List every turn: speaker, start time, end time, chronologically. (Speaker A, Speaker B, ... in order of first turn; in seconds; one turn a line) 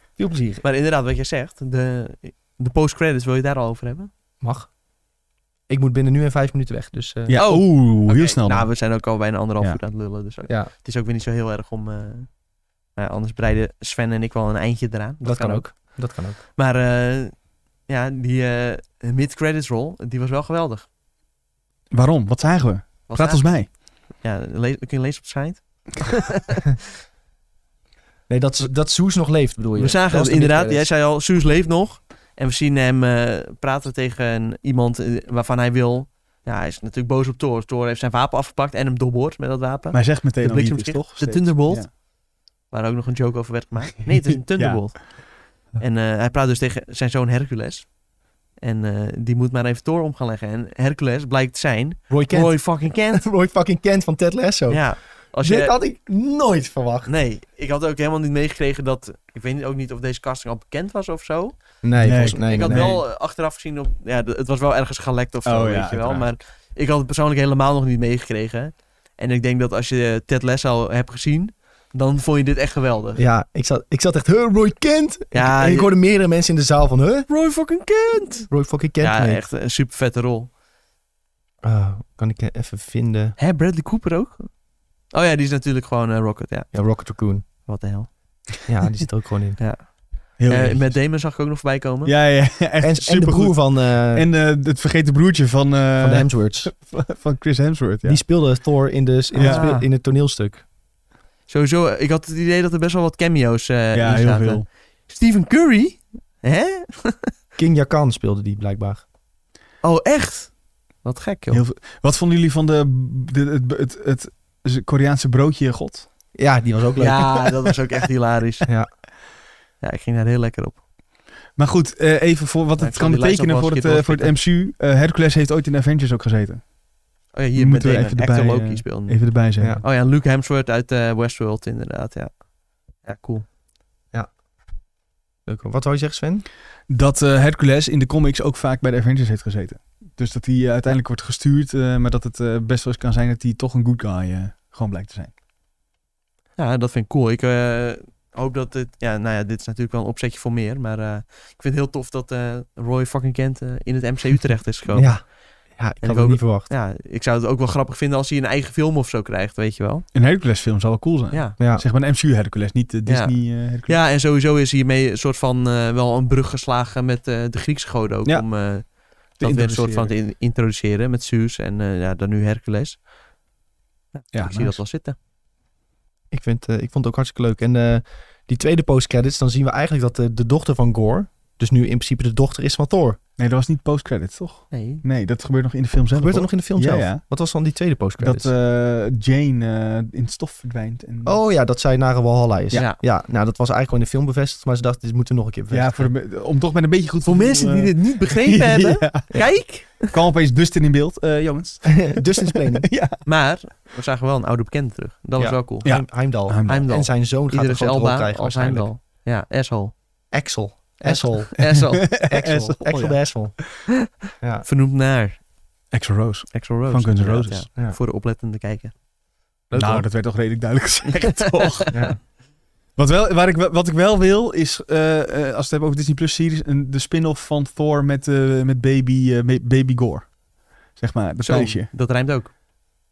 Speaker A: 0.2-0.6
Speaker B: 0.6-4.1
Speaker A: 4.4-4.7
Speaker A: 5.7-7.4
Speaker C: 7.3-8.7
Speaker B: 7.3-12.3
Speaker A: 10.5-10.7
Speaker B: 13.0-16.0
Speaker A: 15.2-16.4
Speaker B: 16.6-20.9
Speaker C: 21.9-23.7
Speaker B: 23.1-26.8
Speaker A: 28.3-30.8
Speaker B: 29.8-42.0
Speaker C: 39.9-41.9
Speaker B: 42.7-47.9
Speaker C: 44.3-44.9
Speaker B: 48.6-53.2
Speaker A: 52.1-57.1
Speaker B: 54.7-55.7
Speaker B: 57.1-61.8
Speaker A: 61.8-62.9
Speaker C: 62.0-63.0
Speaker B: 62.4-73.2
Speaker C: 65.5-66.3
Speaker A: 73.2-77.3
Speaker B: 75.3-75.9
Speaker B: 77.3-80.5
Speaker A: 78.5-79.4
Speaker A: 81.6-83.4
Speaker B: 83.4-84.5
Speaker B: 85.1-86.7
Speaker A: 86.7-87.5
Speaker B: 87.7-88.1
Speaker A: 88.7-89.6
Speaker B: 89.6-92.1
Speaker C: 90.4-91.0
Speaker C: 92.0-98.2
Speaker A: 92.8-94.3
Speaker A: 96.0-96.7
Speaker A: 98.0-100.6
Speaker B: 99.3-99.9
Speaker C: 99.3-99.7
Speaker B: 101.5-107.3
Speaker C: 103.9-104.7
Speaker A: 107.6-109.0
Speaker B: 109.8-111.6
Speaker C: 111.5-116.1
Speaker A: 116.3-117.5
Speaker B: 117.0-118.7
Speaker B: 119.8-120.8
Speaker C: 121.6-126.7
Speaker B: 122.8-124.3
Speaker B: 127.3-132.4
Speaker C: 127.5-129.8
Speaker B: 133.0-133.5
Speaker A: 135.5-136.5
Speaker C: 136.9-145.3
Speaker B: 146.6-155.3
Speaker A: 154.9-155.2
Speaker A: 155.8-156.7
Speaker B: 156.0-160.1
Speaker C: 160.1-164.0
Speaker B: 161.3-161.6
Speaker A: 161.6-161.8
Speaker B: 163.1-173.0
Speaker C: 169.4-170.1
Speaker B: 174.1-175.2
Speaker C: 174.3-174.8
Speaker A: 176.3-183.2
Speaker C: 183.4-187.2
Speaker B: 184.7-185.0
Speaker A: 186.1-188.5
Speaker C: 188.2-191.4
Speaker A: 191.2-196.1
Speaker C: 195.7-199.4
Speaker B: 197.2-200.1
Speaker C: 200.0-203.2
Speaker A: 201.8-202.9
Speaker B: 203.2-205.9
Speaker A: 205.4-208.9
Speaker C: 205.8-206.9
Speaker B: 206.7-209.9
Speaker A: 210.3-213.8
Speaker B: 211.0-212.1
Speaker C: 212.1-213.2
Speaker A: 214.4-214.7
Speaker B: 214.6-215.4
Speaker C: 215.9-217.7
Speaker B: 216.5-218.9
Speaker A: 219.7-220.1
Speaker C: 219.8-221.9
Speaker B: 221.1-222.1
Speaker A: 221.9-222.2
Speaker C: 223.0-230.3
Speaker C: 231.0-231.9
Speaker B: 231.4-232.5